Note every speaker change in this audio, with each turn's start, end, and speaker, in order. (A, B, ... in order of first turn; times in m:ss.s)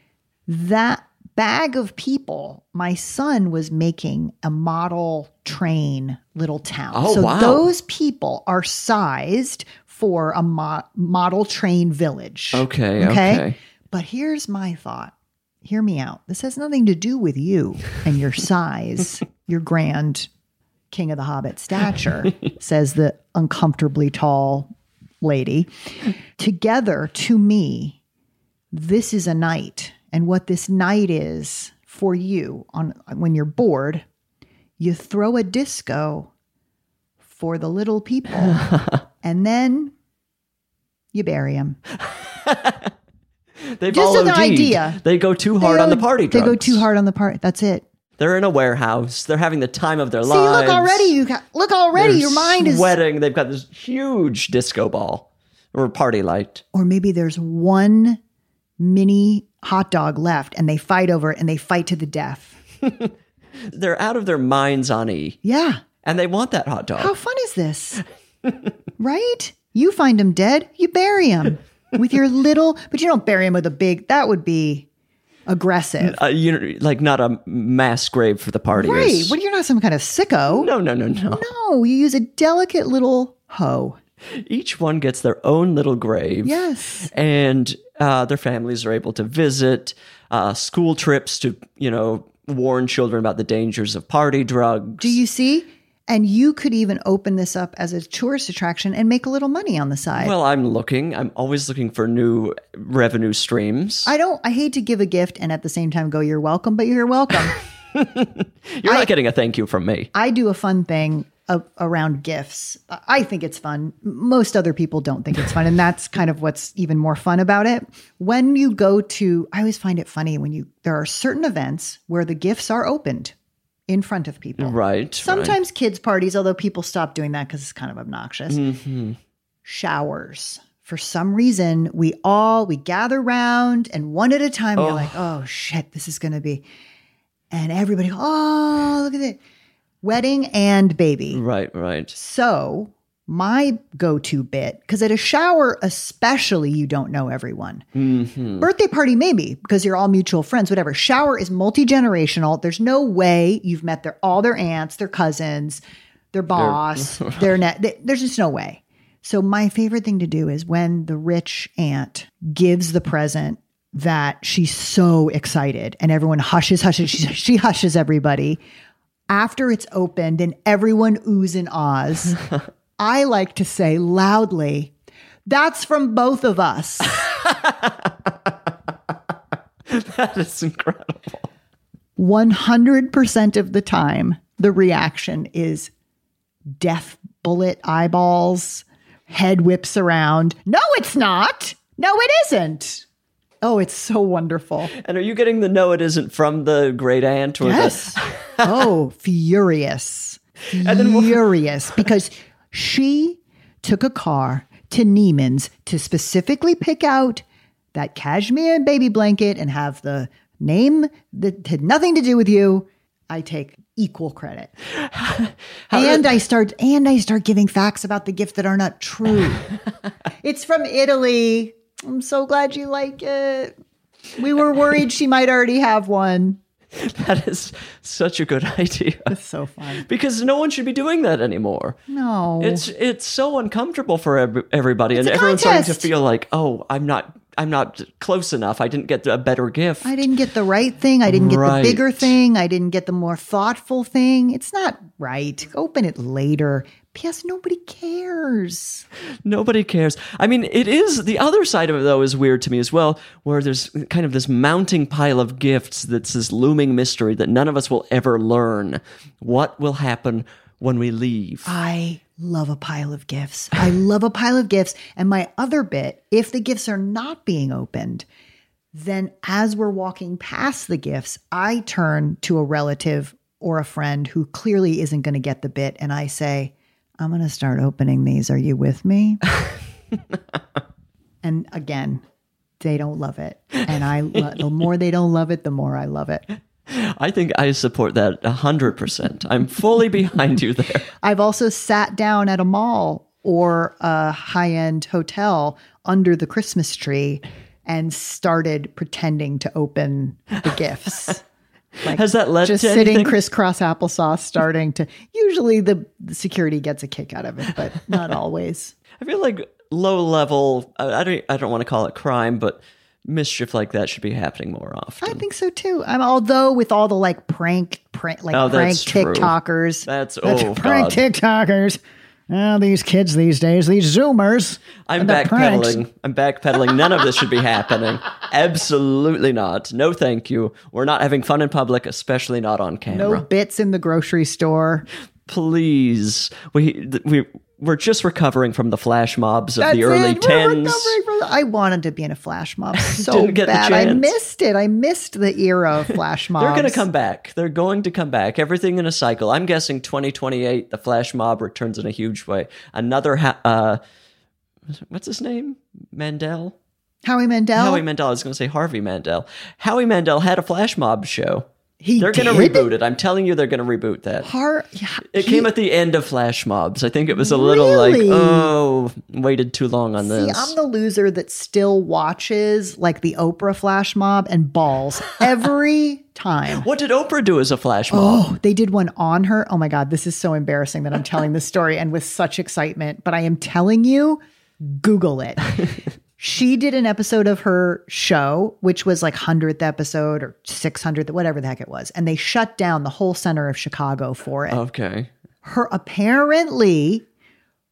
0:00.5-0:15.1 A
0:06.9-0:07.7 B
0:12.5-0:13.6 B
0:15.6-0:20.3 A
0:20.9-0:24.7 A
0:25.2-0:25.7 A
0:26.4-0:28.0 A
0:28.7-0:34.0 A
0:34.8-0:36.3 A
0:37.2-0:38.6 A
0:38.4-0:39.0 B
0:39.2-0:39.9 A
0:41.1-0:41.8 A
0:42.0-0:42.9 B
0:43.8-0:46.8 B
0:43.9-0:45.0 A
0:45.6-0:47.8 A
0:48.2-0:51.2 B
0:50.2-0:53.0 A
0:51.9-0:56.6 B
0:56.7-0:58.2 A
0:58.8-1:02.6 A
1:02.8-1:03.1 B
1:03.6-1:05.4 B
1:05.4-1:05.8 A
1:06.0-1:07.1 B
1:07.0-1:08.0 A
1:09.0-1:14.9 A
1:15.5-1:16.2 A
1:16.0-1:19.4 B
1:18.7-1:20.7 A
1:20.5-1:21.4 B
1:21.3-1:24.0 A
1:24.3-1:35.2 B
1:26.4-1:27.1 A
1:35.0-1:40.3 A
1:40.2-1:44.1 B
1:44.0-1:47.6 A
1:47.9-1:50.1 B
1:48.8-1:49.1 A
1:50.1-2:03.3 A
2:03.9-2:08.6 A
2:04.6-2:05.6 B
2:08.5-2:09.2 B
2:09.6-2:16.6 A
2:14.8-2:15.2 B
2:17.5-2:19.4 A
2:20.0-2:21.4 A
2:21.3-2:22.1 B
2:22.1-2:27.8 A
2:27.9-2:28.7 B
2:28.6-2:35.8 A
2:36.3-2:48.6 A
2:36.5-2:37.5 B
2:49.3-2:52.4 A
2:53.0-2:54.9 A
2:55.4-2:57.2 A
2:57.2-2:58.7 B
2:59.9-3:01.5 B
3:02.2-3:05.9 A
3:06.8-3:13.0 A
3:13.6-3:14.9 A
3:15.0-3:18.8 B
3:17.6-3:34.7 A
3:20.8-3:21.4 B
3:35.0-3:36.3 B
3:35.9-3:39.7 A
3:40.4-3:43.7 A
3:44.4-3:46.6 A
3:46.9-3:49.3 B
3:49.3-3:50.0 A
3:49.9-3:52.0 B
3:52.1-3:52.9 A
3:52.6-4:00.2 B
3:55.1-3:56.1 A
4:00.0-4:09.0 A
4:01.2-4:02.3 B
4:09.4-4:21.7 B
4:21.6-4:28.2 A
4:28.9-4:39.4 A
4:41.4-4:42.2 A
4:42.8-4:46.4 A
4:46.9-4:51.1 B
4:51.2-5:01.4 A
5:02.0-5:08.9 A
5:02.1-5:03.4 B
5:09.2-5:15.4 B
5:15.2-5:26.0 A
5:18.5-5:19.5 B
5:20.0-5:21.2 B
5:25.0-5:33.4 B
5:33.1-5:35.0 A
5:35.5-5:41.2 B
5:39.8-5:47.0 A
5:42.9-5:44.3 B
5:46.6-5:54.0 B
5:54.9-5:56.8 B
5:57.2-5:58.0 A
5:57.7-6:01.7 B
6:02.0-6:02.9 A
6:02.2-6:04.5 B
6:04.4-6:05.7 A
6:05.3-6:10.7 B
6:07.3-6:08.7 A
6:10.2-6:16.9 A
6:16.7-6:18.5 B
6:18.1-6:25.8 A
6:26.4-6:34.8 A
6:34.7-6:35.3 B
6:35.6-6:37.2 A